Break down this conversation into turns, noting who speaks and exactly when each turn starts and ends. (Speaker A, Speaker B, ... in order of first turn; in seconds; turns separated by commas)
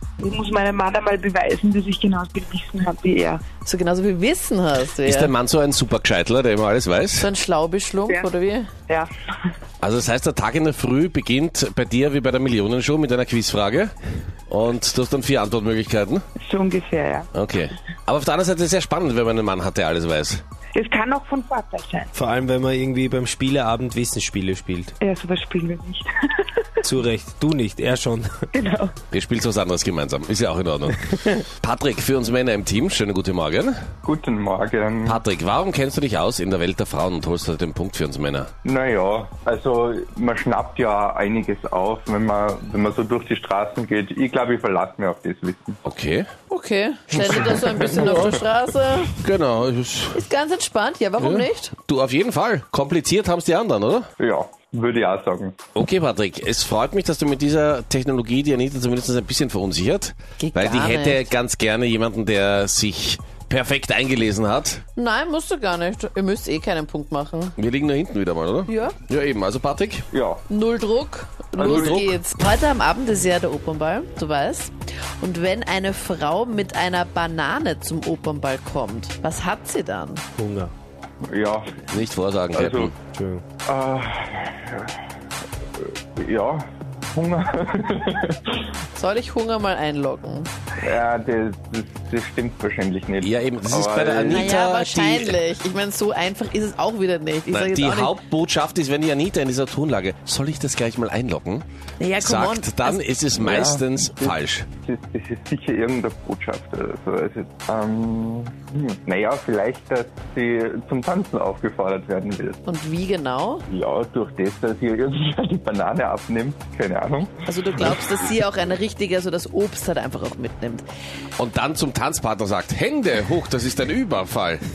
Speaker A: 0.2-3.4, Speaker B: 3.6-5.3, Speaker C: 5.0-7.3, Speaker B: 7.2-8.7, Speaker C: 9.8-13.9, Speaker C: 14.5-16.2, Speaker A: 16.4-17.3, Speaker C: 17.3-20.4, Speaker A: 20.8-22.1, Speaker D: 22.1-24.9, Speaker A: 25.0-26.9, Speaker D: 26.8-28.5, Speaker A: 28.6-28.9, Speaker C: 29.1-33.7, Speaker E: 34.0-35.2, Speaker C: 35.1-38.5, Speaker E: 38.6-45.8, Speaker C: 45.9-46.3, Speaker B: 46.5-49.2, Speaker C: 47.1-48.3, Speaker E: 47.4-48.4, Speaker C: 49.2-50.2, Speaker B: 50.1-51.8, Speaker C: 51.2-54.1, Speaker E: 54.2-55.6, Speaker C: 55.8-64.8, Speaker B: 60.4-61.3, Speaker B: 65.0-67.6, Speaker C: 67.6-70.0, Speaker B: 68.7-69.0, Speaker E: 70.1-70.4, Speaker B: 70.5-80.2, Speaker C: 71.6-72.2, Speaker E: 71.6-72.1, Speaker D: 80.4-80.7, Speaker E: 81.2-81.8, Speaker C: 81.9-82.9, Speaker E: 82.5-82.9, Speaker D: 83.1-83.4, Speaker E: 83.7-84.9, Speaker E: 85.8-88.6, Speaker B: 89.0-90.5, Speaker E: 90.8-94.6, Speaker C: 93.2-95.4, Speaker B: 94.3-98.2, Speaker C: 97.5-101.7, Speaker B: 102.0-103.0, Speaker C: 102.2-104.7, Speaker E: 103.4-112.6, Speaker B: 112.7-113.7, Speaker E: 113.7-117.9, Speaker B: 117.5-120.8, Speaker C: 121.4-124.6